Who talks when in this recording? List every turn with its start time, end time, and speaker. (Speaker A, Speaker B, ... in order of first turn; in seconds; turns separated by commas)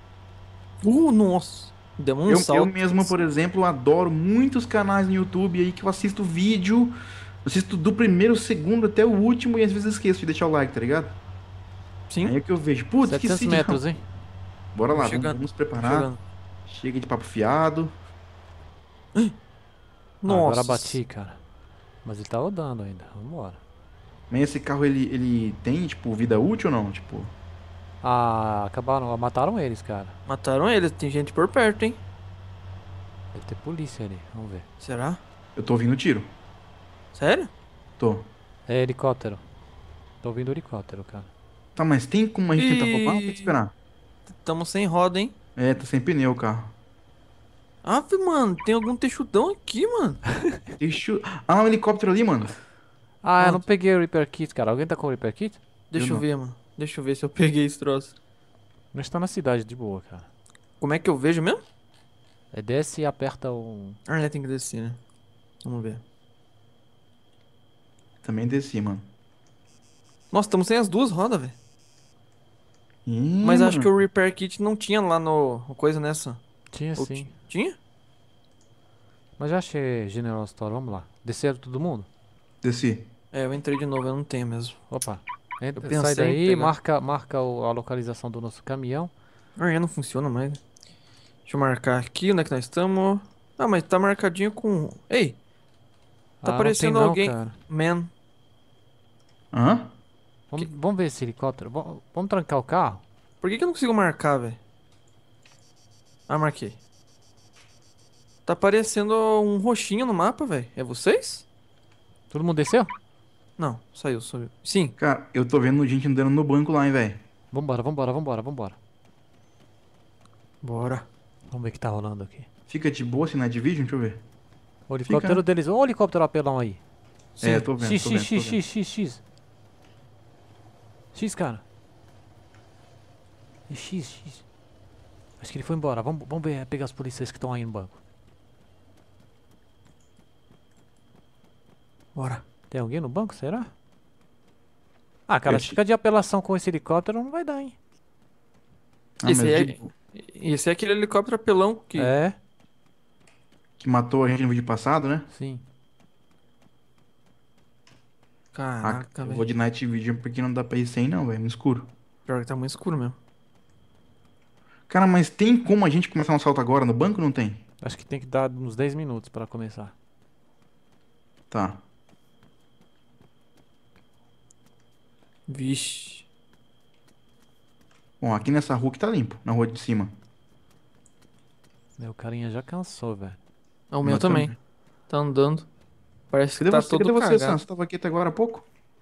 Speaker A: 0.8-3.0, Speaker B: 2.3-11.2, Speaker A: 12.1-12.3, Speaker B: 12.2-13.8, Speaker C: 13.0-14.1, Speaker B: 14.7-16.1, Speaker A: 14.9-16.2, Speaker B: 16.7-17.9, Speaker A: 20.2-21.0, Speaker C: 20.2-21.4, Speaker C: 22.0-23.6, Speaker B: 24.3-27.3, Speaker C: 28.0-30.1, Speaker A: 30.3-32.0, Speaker C: 33.3-34.7, Speaker A: 34.8-35.2, Speaker B: 35.6-36.3, Speaker A: 37.1-37.5, Speaker B: 38.0-38.3, Speaker C: 38.7-39.4, Speaker C: 40.2-41.3, Speaker B: 41.8-43.7, Speaker A: 42.6-43.5, Speaker A: 44.3-45.3, Speaker B: 45.6-46.8, Speaker A: 47.8-50.2, Speaker B: 50.8-52.5, Speaker C: 53.2-55.6, Speaker A: 53.4-53.6, Speaker A: 55.9-58.2, Speaker B: 56.0-56.2, Speaker C: 58.9-60.3, Speaker A: 60.8-61.6, Speaker C: 62.5-64.0, Speaker A: 64.1-65.0, Speaker A: 65.6-66.0, Speaker B: 68.2-69.1, Speaker A: 70.3-71.6, Speaker B: 73.1-73.9, Speaker A: 73.4-76.4, Speaker C: 76.7-77.3, Speaker A: 77.0-77.8, Speaker C: 79.4-82.1, Speaker B: 82.6-83.1, Speaker A: 83.3-84.8, Speaker C: 84.9-89.1, Speaker A: 85.8-86.7, Speaker A: 89.6-90.6, Speaker A: 91.5-95.4, Speaker C: 96.4-97.6, Speaker A: 96.4-98.1, Speaker B: 99.5-99.9, Speaker C: 100.5-103.0, Speaker A: 103.4-104.6, Speaker A: 106.3-106.8, Speaker A: 108.5-111.5, Speaker C: 112.3-112.9, Speaker A: 113.6-115.0, Speaker B: 115.0-117.2, Speaker C: 117.5-118.8, Speaker A: 120.6-121.1, Speaker C: 121.5-122.5, Speaker B: 122.7-124.2, Speaker C: 124.9-126.8, Speaker B: 125.0-125.4, Speaker B: 127.4-128.6, Speaker C: 127.4-129.2, Speaker C: 131.1-131.6, Speaker C: 133.7-134.4, Speaker C: 135.4-138.0, Speaker A: 142.2-142.4, Speaker C: 142.7-143.7, Speaker C: 145.3-147.8, Speaker B: 145.5-145.8, Speaker B: 149.2-149.9, Speaker A: 149.2-152.1, Speaker C: 152.0-152.4, Speaker B: 153.8-155.3, Speaker C: 155.3-155.6, Speaker A: 158.5-159.5, Speaker B: 158.8-161.9, Speaker A: 162.3-163.2, Speaker B: 164.9-167.6, Speaker C: 167.8-169.9, Speaker B: 171.5-171.8, Speaker A: 175.5-176.3, Speaker B: 178.2-180.2, Speaker C: 182.0-183.4, Speaker A: 183.9-184.6, Speaker B: 184.0-184.5, Speaker A: 185.1-185.7, Speaker A: 186.3-187.6, Speaker B: 186.6-188.7